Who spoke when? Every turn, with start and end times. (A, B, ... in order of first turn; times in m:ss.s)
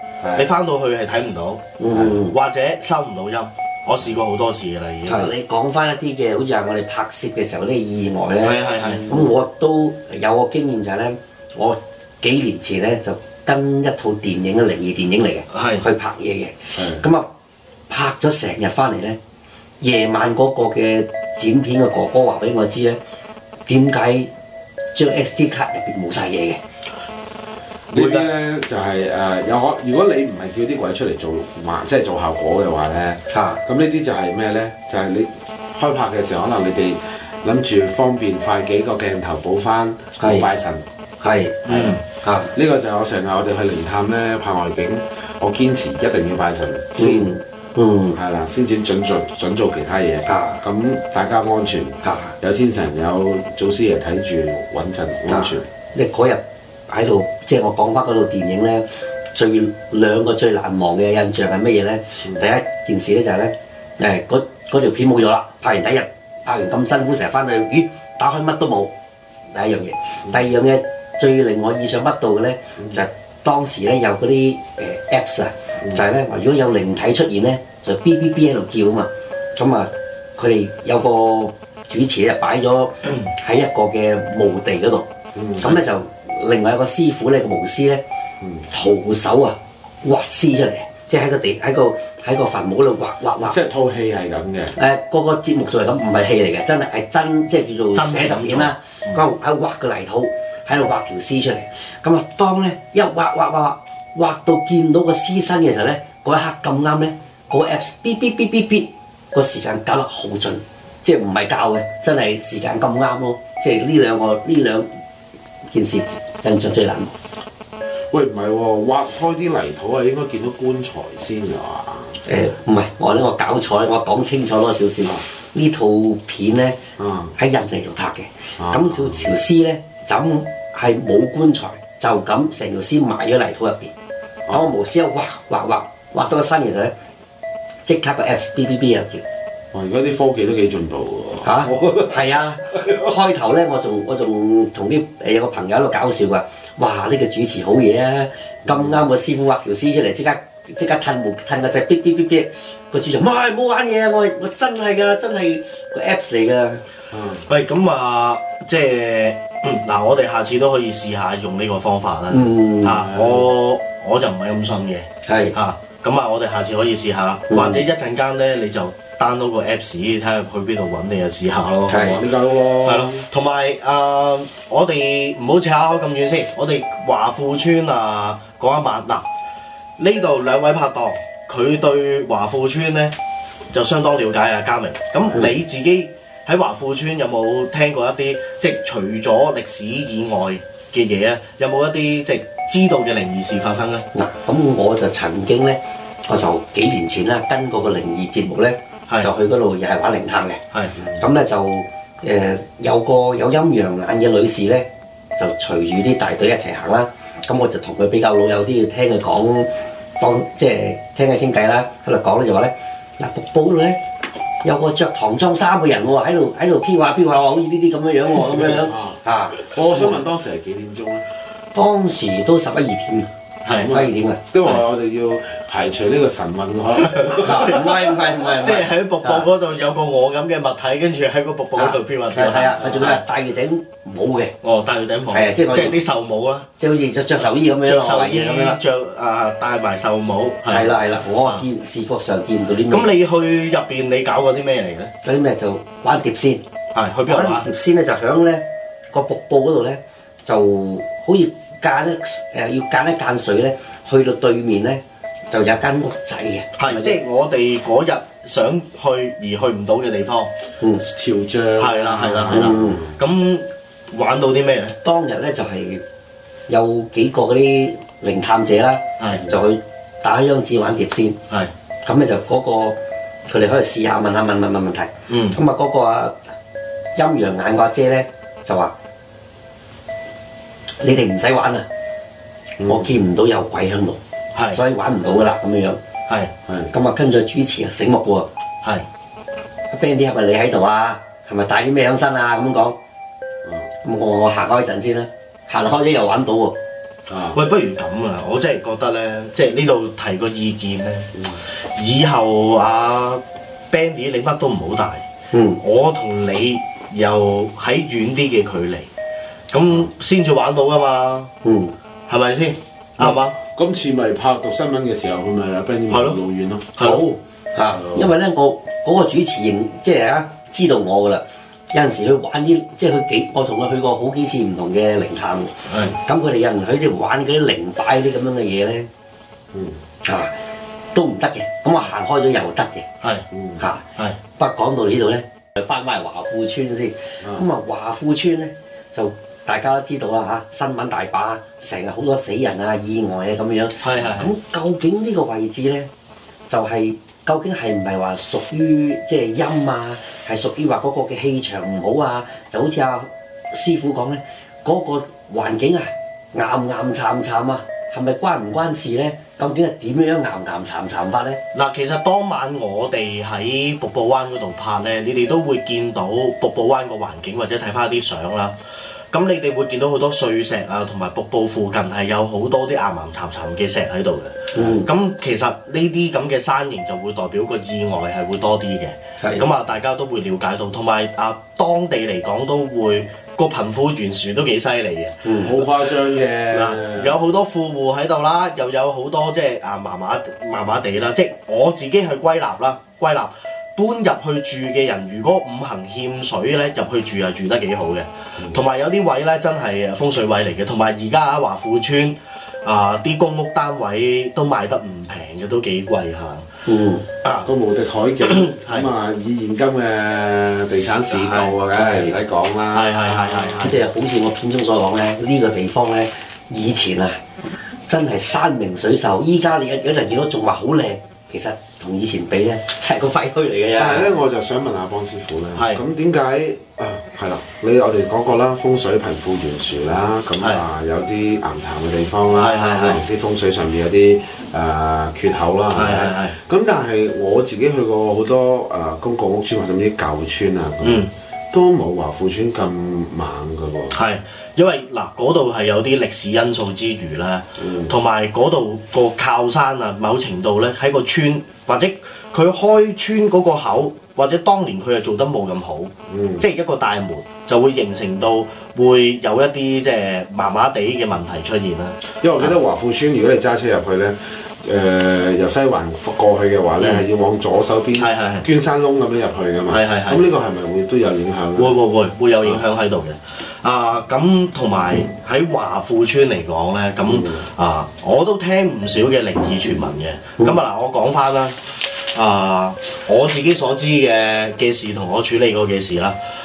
0:00.2-0:00.5 A
0:00.4-0:01.6 B
0:01.8-0:02.3 C
0:02.3-0:05.3 B
0:05.1-0:17.3 C
0:08.4-0:09.0 B
0:08.8-0:09.2 A
0:15.5-0:15.8 B
0:16.7-0:17.0 A
0:17.9-0:19.2 C
0:19.8-0:23.0 C
0:23.7-0:24.3 C
0:24.9-0:26.6 C
0:27.9-0:40.8 A
0:27.9-0:28.3 B
0:33.3-0:33.6 C
0:40.2-0:40.5 C
0:41.2-0:41.6 C
0:41.6-0:42.0 B
0:41.6-0:42.0 A
0:42.2-0:42.5 C
0:42.5-0:47.3 A
0:47.0-0:48.2 C
0:48.1-0:55.7 A
0:50.2-0:50.6 C
0:52.0-0:52.3 C
0:55.3-1:08.9 C
1:09.5-1:28.0 C
1:25.3-1:25.8 A
1:28.7-1:33.6 C
1:33.4-1:34.8 A
1:34.8-1:54.9 C
1:37.9-1:39.2 B
1:55.7-1:57.1 C
1:58.1-2:02.2 A
2:02.2-2:06.8 C
2:07.0-2:07.3 A
2:07.4-2:13.9 C
2:08.6-2:09.3 A
2:14.5-2:16.9 C
2:17.8-2:19.2 C
2:19.7-2:22.3 A
2:21.4-2:36.8 C
2:28.7-2:29.0 A
2:37.1-2:37.5 A
2:37.5-2:52.3 B
2:42.3-2:43.0 C
2:43.0-2:43.5 A
2:45.2-2:45.6 C
2:47.5-2:47.8 C
2:51.9-2:52.2 C
2:52.0-2:53.2 A
2:52.8-2:59.2 B
3:00.0-3:03.1 B
3:03.7-3:14.0 B
3:14.1-3:20.6 C
3:21.2-3:34.0 C
3:34.6-3:40.1 C
3:38.4-3:41.3 A
3:41.7-3:44.4 C
3:43.6-3:43.9 B
3:43.7-3:47.9 A
3:47.1-3:47.5 B
3:47.4-3:49.4 C
3:48.6-3:53.2 B
3:51.8-3:54.5 C
3:54.6-3:56.7 B
3:55.3-3:56.0 C
3:56.8-3:58.8 C
3:57.7-4:01.6 B
4:00.6-4:03.1 C
4:02.9-4:05.1 B
4:05.2-4:06.6 C
4:06.9-4:07.7 B
4:07.3-4:17.2 C
4:16.8-4:20.5 B
4:21.0-4:23.2 A
4:21.8-4:25.0 B
4:22.5-4:23.0 C
4:25.0-4:26.0 C
4:26.7-4:31.4 C
4:29.3-4:29.6 A
4:32.0-4:36.4 C
4:35.3-4:35.6 B
4:37.1-4:38.9 C
4:41.0-4:41.9 C
4:42.8-4:43.1 A
4:42.8-4:46.0 C
4:44.5-4:44.8 B
4:46.7-4:46.9 A
4:46.9-4:48.5 C
4:49.9-4:53.0 C
4:54.0-4:56.8 C
4:57.3-4:57.6 A
4:57.5-5:01.3 B
5:01.3-5:01.6 A
5:02.0-5:05.2 B
5:05.5-5:05.8 C
5:05.8-5:09.1 B
5:09.7-5:11.5 B
5:11.6-5:11.9 C
5:12.3-5:13.6 B
5:13.2-5:16.9 A
5:16.1-5:16.4 B
5:16.9-5:17.2 B
5:17.0-5:29.1 C
5:17.9-5:18.3 A
5:25.9-5:26.1 B
5:29.7-5:30.0 A
5:30.2-5:30.5 C
5:31.1-5:33.1 C
5:33.5-5:33.8 A
5:34.6-5:46.1 C
5:44.0-5:44.5 B
5:46.7-6:01.6 C
6:01.7-6:08.7 B
6:09.3-6:25.4 B
6:14.7-6:15.1 C
6:25.4-6:25.7 C
6:25.6-6:27.4 A
6:26.7-6:46.6 B
6:38.6-6:38.8 A
6:46.8-6:47.2 C
6:47.4-6:47.7 B
6:47.6-6:53.9 A
6:48.4-6:49.1 B
6:50.9-6:51.7 B
6:52.0-6:52.3 C
6:52.9-6:53.9 B
6:53.8-6:57.4 C
6:58.1-7:04.3 C
7:04.0-7:24.2 A
7:05.8-7:06.0 B
7:12.5-7:13.2 B
7:15.9-7:16.6 B
7:21.0-7:21.3 B
7:24.1-7:42.7 B
7:27.8-7:28.2 A
7:36.3-7:36.7 A
7:42.4-7:52.0 A
7:47.0-7:47.2 B
7:48.1-7:48.7 B
7:49.9-7:50.4 B
7:51.8-8:01.7 B
7:57.2-7:57.7 A
8:02.3-8:06.4 B